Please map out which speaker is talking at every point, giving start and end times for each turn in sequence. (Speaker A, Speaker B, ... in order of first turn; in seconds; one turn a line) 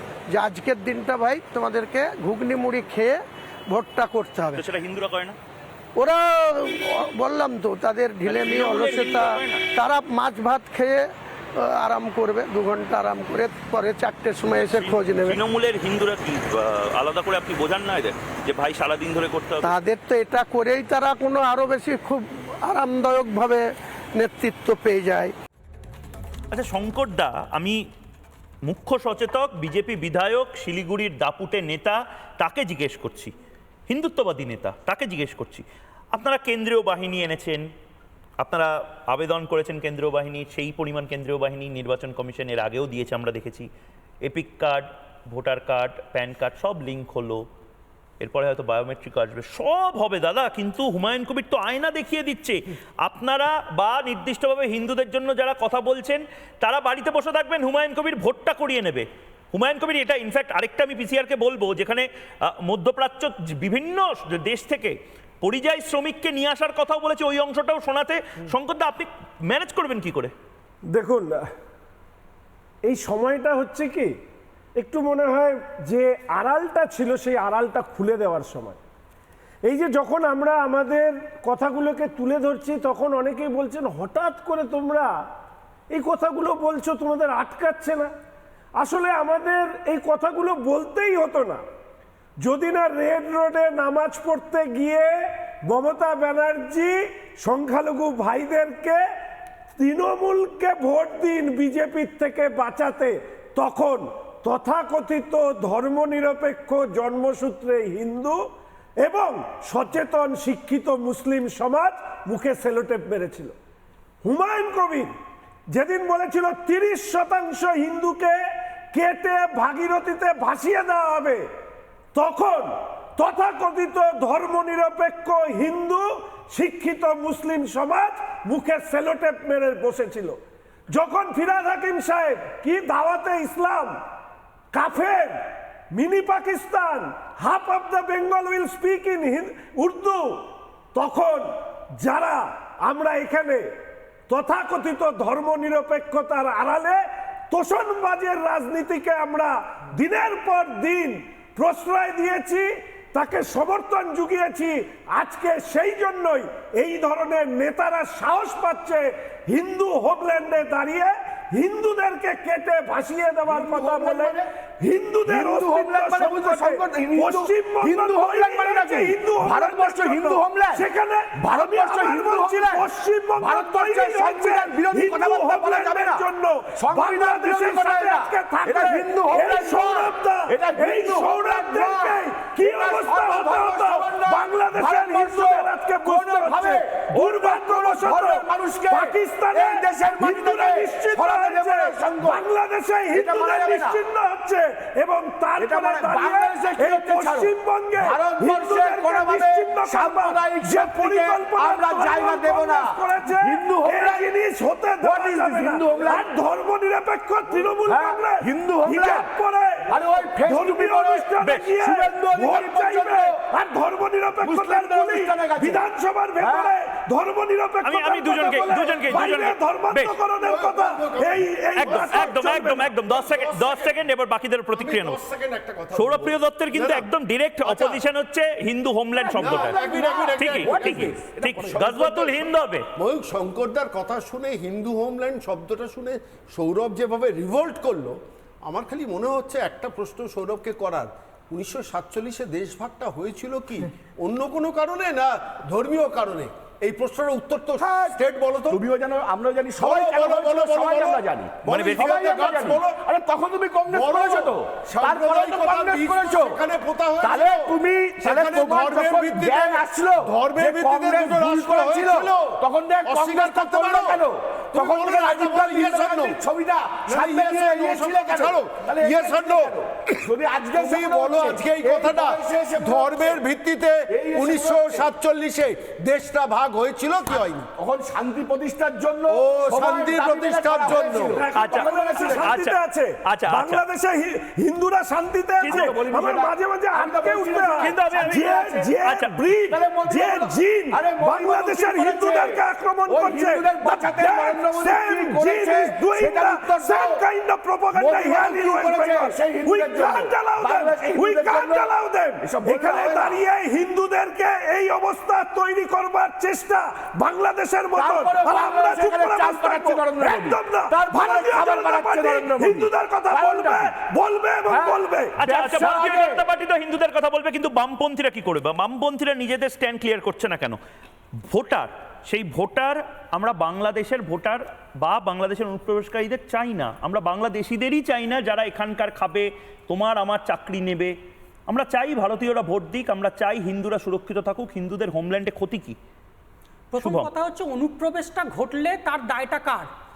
Speaker A: 0.3-4.6
Speaker B: 4.5-5.4
Speaker A: 6.0-15.4
Speaker B: 8.3-9.6
Speaker B: 14.6-19.8
Speaker A: 19.6-25.3
Speaker B: 26.5-27.8
Speaker B: 28.7-33.3
Speaker B: 33.9-37.7
Speaker B: 38.4-43.7
Speaker B: 44.2-47.4
Speaker B: 48.2-70.3
Speaker C: 70.9-71.4
Speaker C: 72.9-74.2
Speaker C: 74.8-78.8
Speaker C: 79.7-85.2
Speaker C: 85.9-88.1
Speaker C: 88.8-91.6
Speaker C: 92.4-99.0
Speaker C: 99.8-108.5
Speaker C: 109.0-113.5
Speaker C: 114.2-115.1
Speaker C: 115.7-118.4
Speaker C: 118.9-121.5
Speaker C: 122.1-134.0
Speaker C: 134.7-143.7
Speaker C: 144.3-222.9
Speaker D: 163.5-164.5
Speaker D: 165.2-192.5
Speaker D: 193.1-194.0
Speaker D: 195.6-204.3
Speaker D: 205.0-206.3
Speaker D: 207.8-209.3
Speaker D: 209.9-213.5
Speaker D: 214.4-216.8
Speaker B: 217.8-220.1
Speaker E: 220.4-222.4
Speaker B: 221.8-225.2
Speaker E: 223.1-223.9
Speaker E: 224.7-227.1
Speaker B: 225.9-229.8
Speaker E: 227.6-228.0
Speaker E: 229.3-231.2
Speaker D: 229.4-232.5
Speaker B: 230.4-232.9
Speaker E: 233.0-248.8
Speaker D: 247.8-248.2
Speaker D: 248.7-256.6
Speaker E: 249.8-251.3
Speaker B: 251.7-252.3
Speaker E: 251.8-253.0
Speaker E: 253.9-266.4
Speaker D: 257.2-273.4
Speaker E: 267.1-269.8
Speaker E: 270.8-277.7
Speaker D: 274.1-275.1
Speaker D: 277.8-282.6
Speaker E: 279.3-281.4
Speaker C: 280.9-315.5
Speaker B: 281.6-283.8
Speaker B: 285.6-285.9
Speaker D: 285.7-288.9
Speaker B: 287.8-289.4
Speaker D: 289.7-297.3
Speaker D: 297.9-303.4
Speaker D: 307.9-313.9
Speaker D: 314.7-316.4
Speaker B: 315.4-320.8
Speaker B: 321.5-331.1
Speaker B: 331.7-336.0
Speaker F: 336.9-339.9
Speaker B: 337.0-337.3